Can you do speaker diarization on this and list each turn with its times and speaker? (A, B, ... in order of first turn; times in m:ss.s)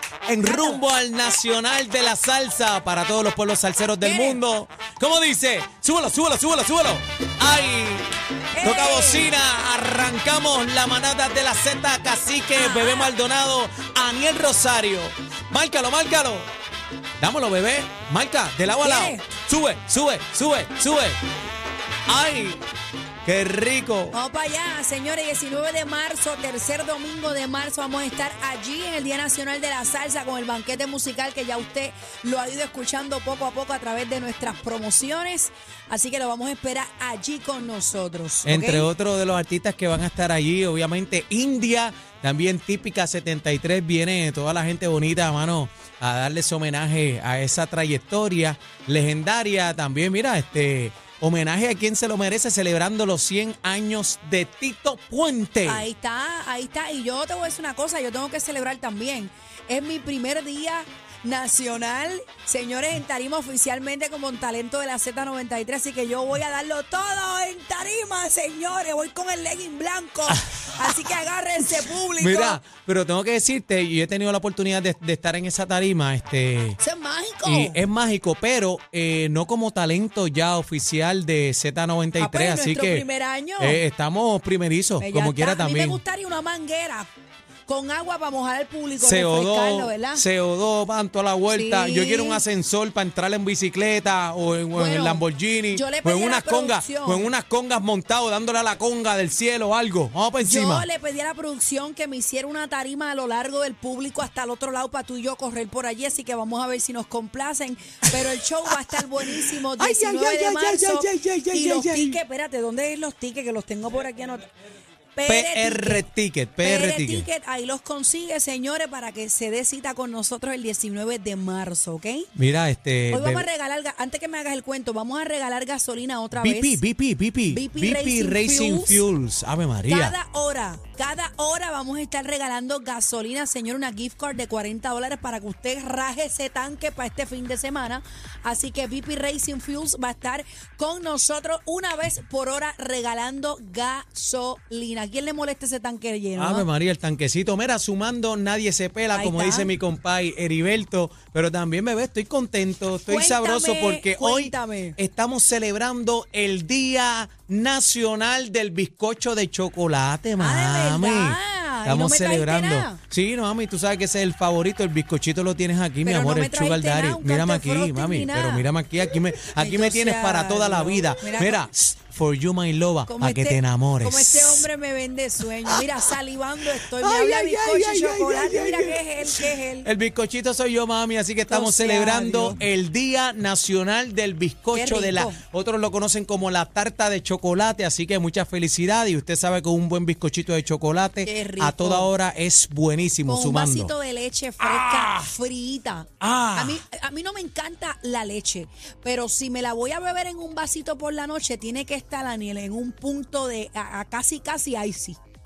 0:00.3-0:16.5 A
0:00.4-0:00.8 B
0:04.0-0:04.4 B
0:08.5-0:09.3 B
0:12.6-0:13.1 B
0:17.2-0:21.2 A
0:18.8-0:19.2 B
0:22.1-0:22.6 A
0:23.2-0:24.2 A
0:24.1-0:38.9 B
0:38.4-0:55.9 A
0:55.7-1:12.6 B
1:10.3-1:11.1 A
1:12.2-1:16.8 A
1:16.8-1:17.8 B
1:17.5-1:23.1 A
1:22.2-1:23.8 B
1:23.6-1:26.0 A
1:25.0-1:27.1 B
1:27.7-1:30.2 B
1:29.0-1:40.9 A
1:31.5-1:32.4 B
1:34.7-1:37.3 B
1:40.4-1:54.5 B
1:48.1-1:52.2 A
1:55.2-1:56.0 B
1:55.3-1:57.3 A
1:56.6-2:02.3 B
2:02.4-2:03.5 A
2:03.1-2:06.8 B
2:06.4-2:10.2 A
2:07.5-2:09.0 B
2:09.9-2:26.7 B
2:26.4-2:54.6 A
2:29.1-2:29.7 B
2:33.1-2:35.0 B
2:40.4-2:43.0 B
2:46.0-2:48.7 B
2:49.6-2:51.7 B
2:53.1-2:59.9 B
2:57.0-3:13.9 A
3:01.5-3:02.6 B
3:04.7-3:05.4 B
3:11.2-3:12.1 B
3:13.3-3:25.2 B
3:14.6-3:15.3 A
3:16.2-3:16.8 A